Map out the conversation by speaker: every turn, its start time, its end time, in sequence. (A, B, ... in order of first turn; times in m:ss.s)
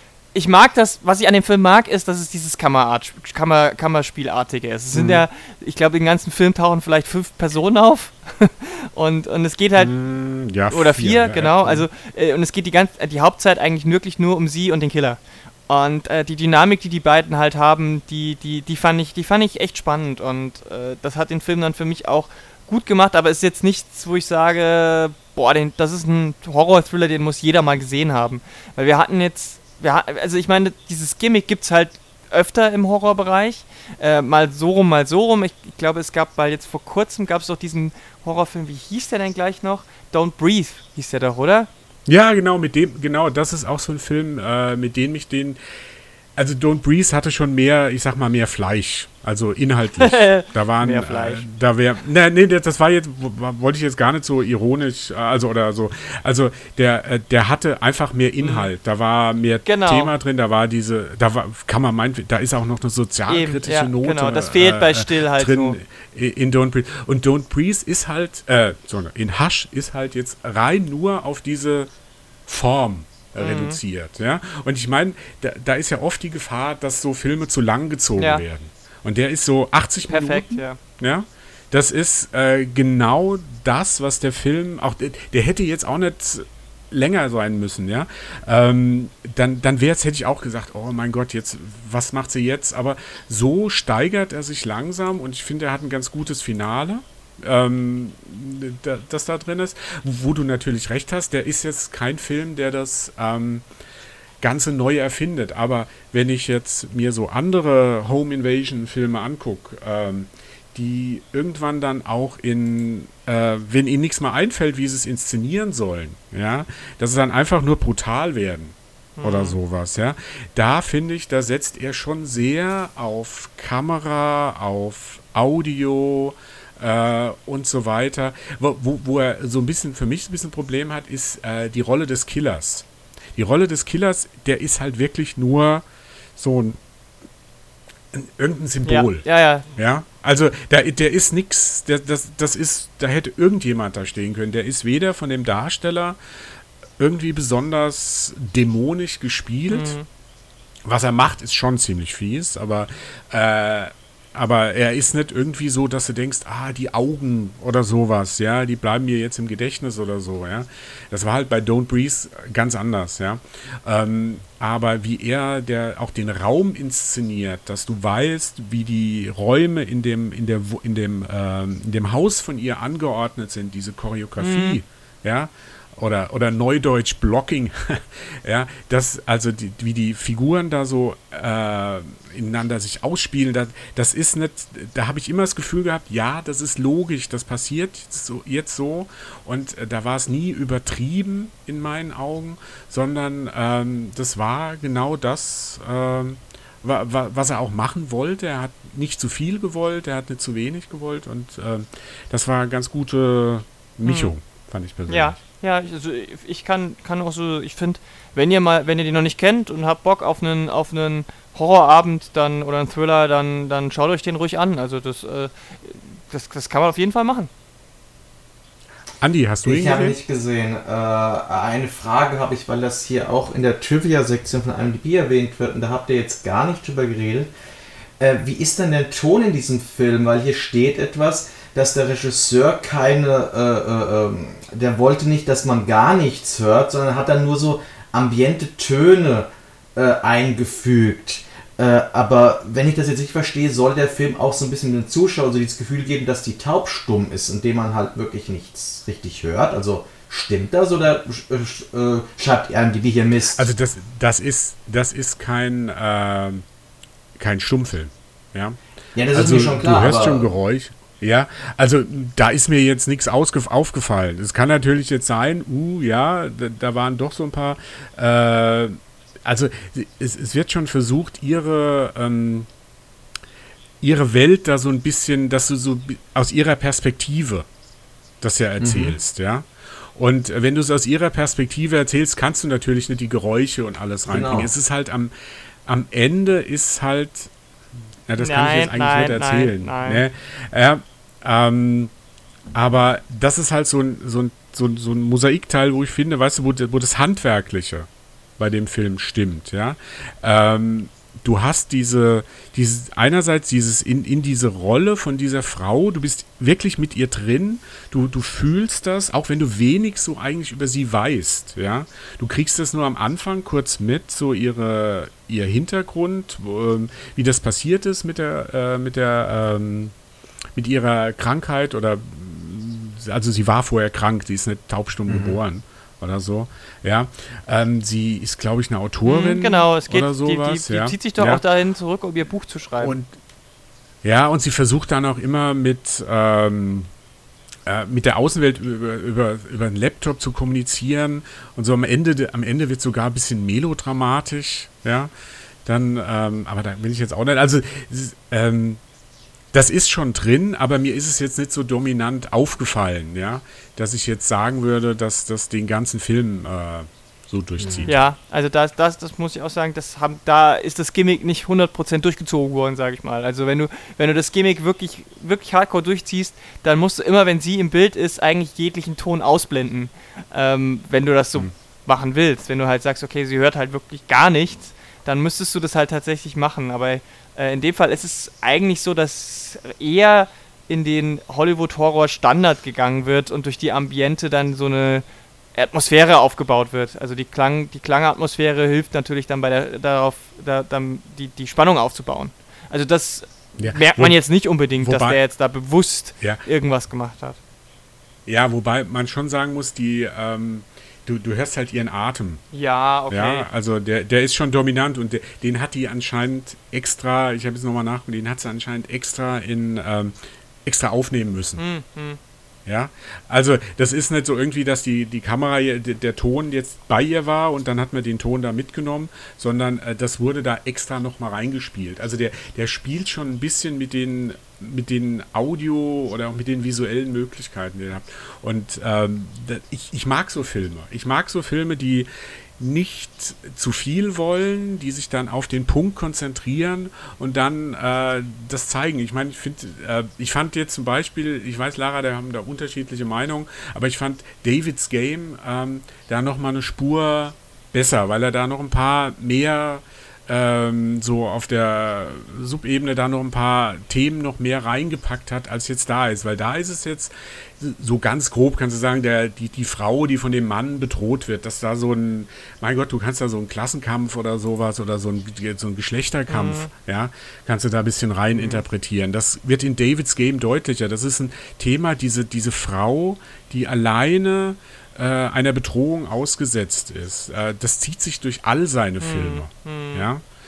0:00.3-0:09.9 A
0:04.9-0:05.2 B
0:09.8-0:11.9 B
0:10.7-0:41.7 A
0:42.1-0:45.6 B
0:46.4-1:11.9 B
0:50.0-0:51.4 A
0:58.4-0:58.7 A
0:59.7-1:00.1 A
1:03.3-1:05.8 A
1:12.5-1:43.6 B
1:13.4-1:13.8 A
1:18.2-1:18.4 A
1:20.1-1:20.8 A
1:44.4-2:15.8 B
1:59.2-1:59.6 A
2:16.4-2:16.8 B
2:18.1-2:26.2 B
2:18.8-2:19.7 A
2:27.0-2:30.0 B
2:29.7-2:30.1 A
2:30.8-3:25.4 B
2:54.4-2:54.8 A
3:24.0-3:24.3 A
3:25.1-3:37.5 A
3:39.2-3:40.2 B
3:39.6-3:47.5 C
3:48.2-4:13.7 C
4:13.5-4:16.6 B
4:17.4-4:18.8 B
4:19.2-4:20.5 C
4:19.3-4:32.7 B
4:34.0-4:37.7 B
4:38.4-4:45.3 B
4:38.8-4:39.2 C
4:44.3-4:44.7 C
4:45.9-4:47.5 B
4:48.3-4:52.1 B
4:48.4-4:50.2 A
4:52.7-5:20.2 B
5:20.8-5:31.6 B
5:25.3-5:25.6 C
5:29.2-5:33.2 A
5:33.0-5:33.3 B
5:34.2-5:37.1 B
5:37.9-5:45.3 B
5:45.8-5:49.0 B
5:49.7-5:58.2 B
5:58.1-6:37.6 A
6:33.8-6:34.4 B
6:35.0-6:35.4 B
6:38.5-6:42.6 B
6:42.7-6:43.7 A
6:43.3-6:51.8 B
6:51.8-6:52.4 A
6:52.9-8:00.4 B
7:46.5-7:46.9 A
7:48.6-7:48.8 A
7:59.2-8:00.3 A